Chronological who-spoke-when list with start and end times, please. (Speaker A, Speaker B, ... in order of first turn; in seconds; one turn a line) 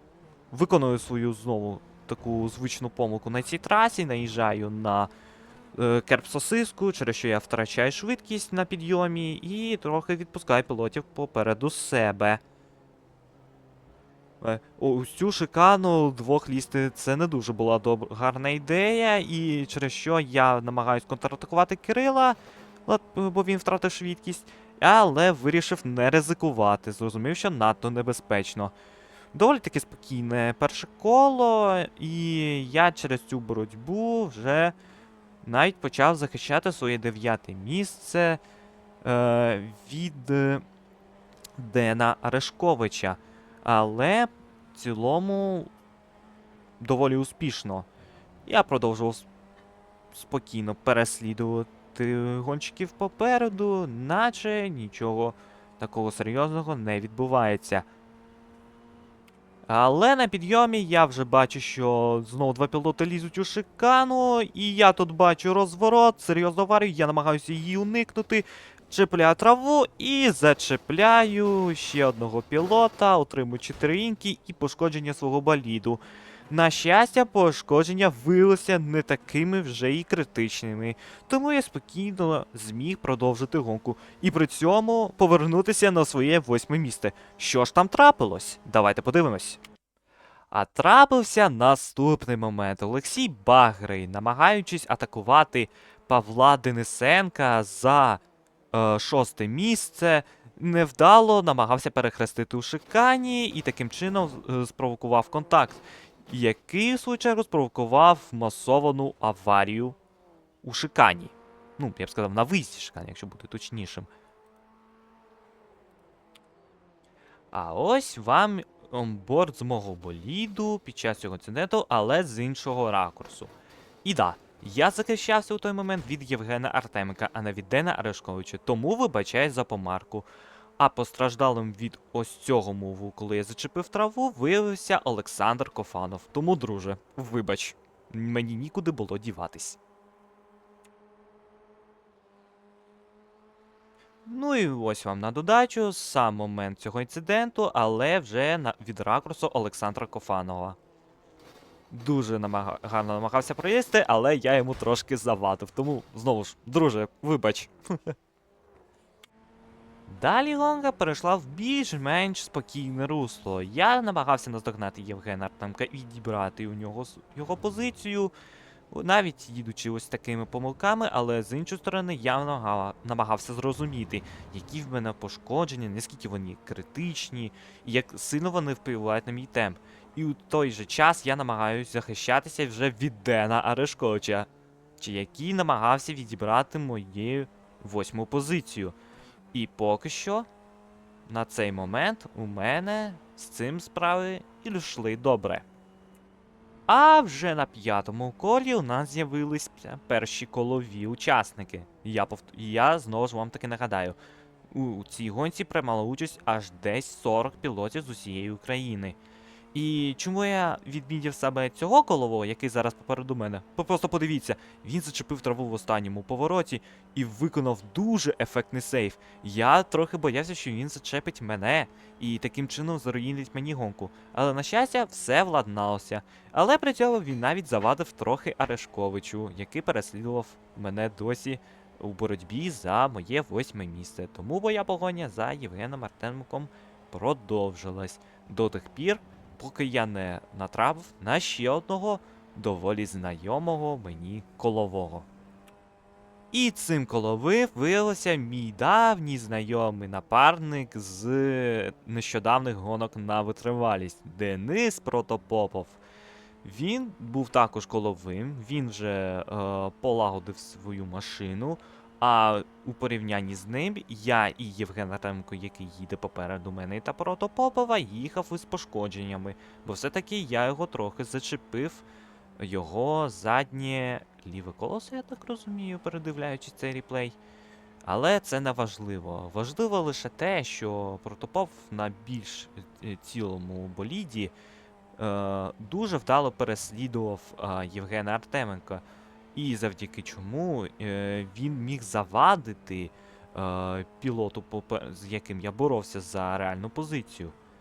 Speaker A: 0.5-5.1
Speaker A: 5.7-12.4
Speaker A: 14.4-28.7
Speaker A: 29.3-34.7
Speaker A: 35.4-38.4
Speaker A: 39.0-40.6
Speaker A: 41.6-45.7
Speaker A: 46.8-47.9
Speaker A: 48.5-49.3
Speaker A: 50.1-57.9
Speaker A: 59.7-89.6
Speaker A: 90.5-98.2
Speaker A: 98.7-110.0
Speaker A: 110.6-114.1
Speaker A: 117.5-123.5
Speaker A: 124.0-139.8
Speaker A: 144.2-150.8
Speaker A: 151.9-158.1
Speaker A: 160.1-168.3
Speaker A: 168.9-188.9
Speaker A: 189.5-190.5
Speaker A: 191.3-195.6
Speaker A: 196.9-204.2
Speaker A: 204.7-209.2
Speaker A: 209.7-245.3
Speaker A: 246.5-256.0
Speaker A: 256.6-272.0
Speaker A: 272.6-277.4
Speaker A: 278.0-284.5
Speaker A: 285.2-289.0
Speaker A: 289.5-297.5